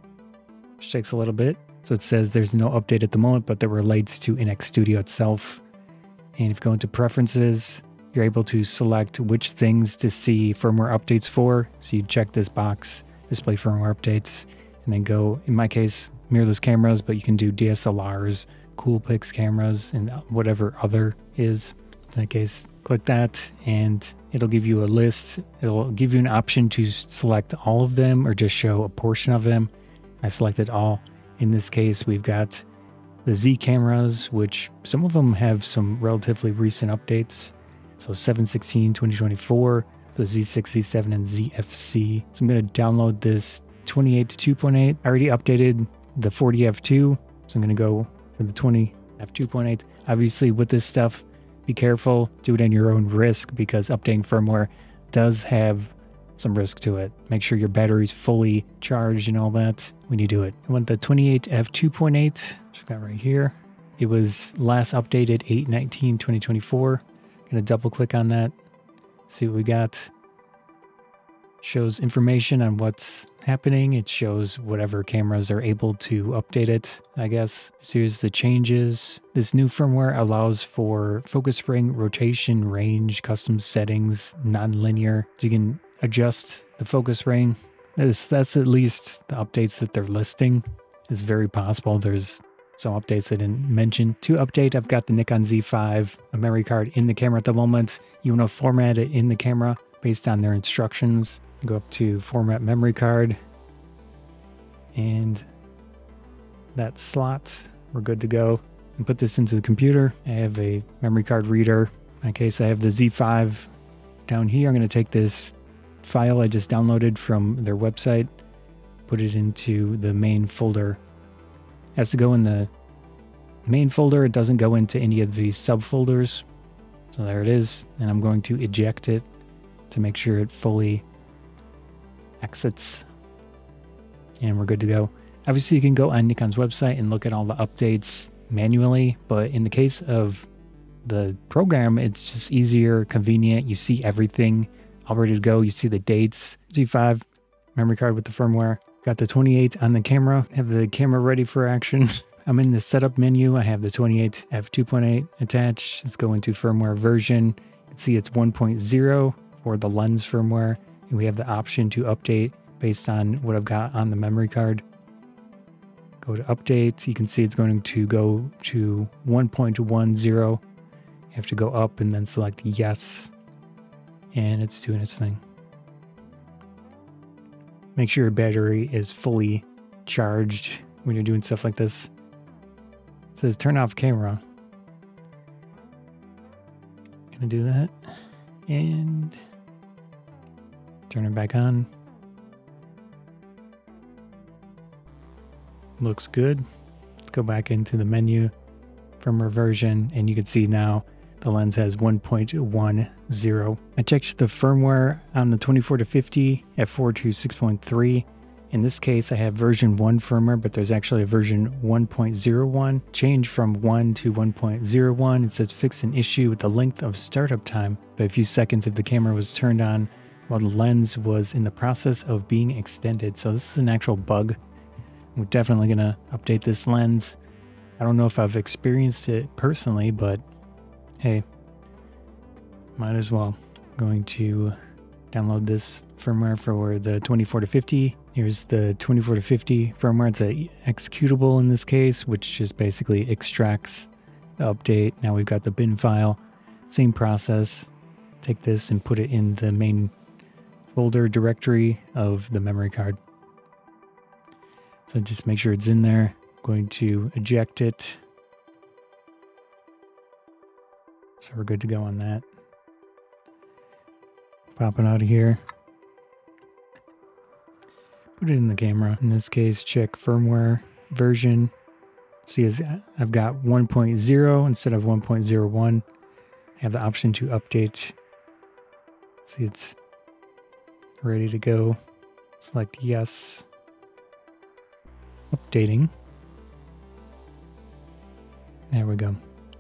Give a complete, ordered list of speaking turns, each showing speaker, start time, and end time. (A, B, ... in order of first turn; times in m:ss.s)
0:00.8-0:05.6 A
0:06.4-0:29.7 A
0:30.2-0:32.6 A
0:33.2-1:08.5 A
1:09.3-1:10.1 A
1:11.6-1:43.4 A
1:44.9-1:45.5 A
1:46.7-1:53.7 A
1:54.2-1:58.3 A
1:59.1-2:01.0 A
2:02.0-2:02.7 A
2:03.6-2:06.4 A
2:07.1-2:09.2 A
2:09.9-2:11.0 A
2:12.4-2:13.1 A
2:14.4-2:20.5 A
2:21.0-2:27.2 A
2:27.7-2:44.8 A
2:46.2-2:50.6 A
2:51.3-2:53.3 A
2:54.3-2:55.4 A
2:58.0-3:02.1 A
3:03.3-3:04.4 A
3:07.3-3:07.9 A
3:08.7-3:09.4 A
3:11.1-3:11.9 A
3:16.0-3:16.6 A
3:17.3-3:18.5 A
3:19.2-3:44.6 A
3:45.3-3:47.4 A
3:48.0-3:50.4 A
3:53.0-3:54.8 A
3:55.3-4:07.9 A
4:08.4-4:10.1 A
4:10.9-4:13.2 A
4:15.1-4:18.2 A
4:21.4-4:22.4 A
4:24.8-4:25.6 A
4:28.4-4:31.7 A
4:32.4-4:36.0 A
4:36.8-4:38.2 A
4:39.4-4:40.0 A
4:41.2-4:42.0 A
4:42.6-4:43.6 A
4:45.5-4:46.1 A
4:48.9-4:49.4 A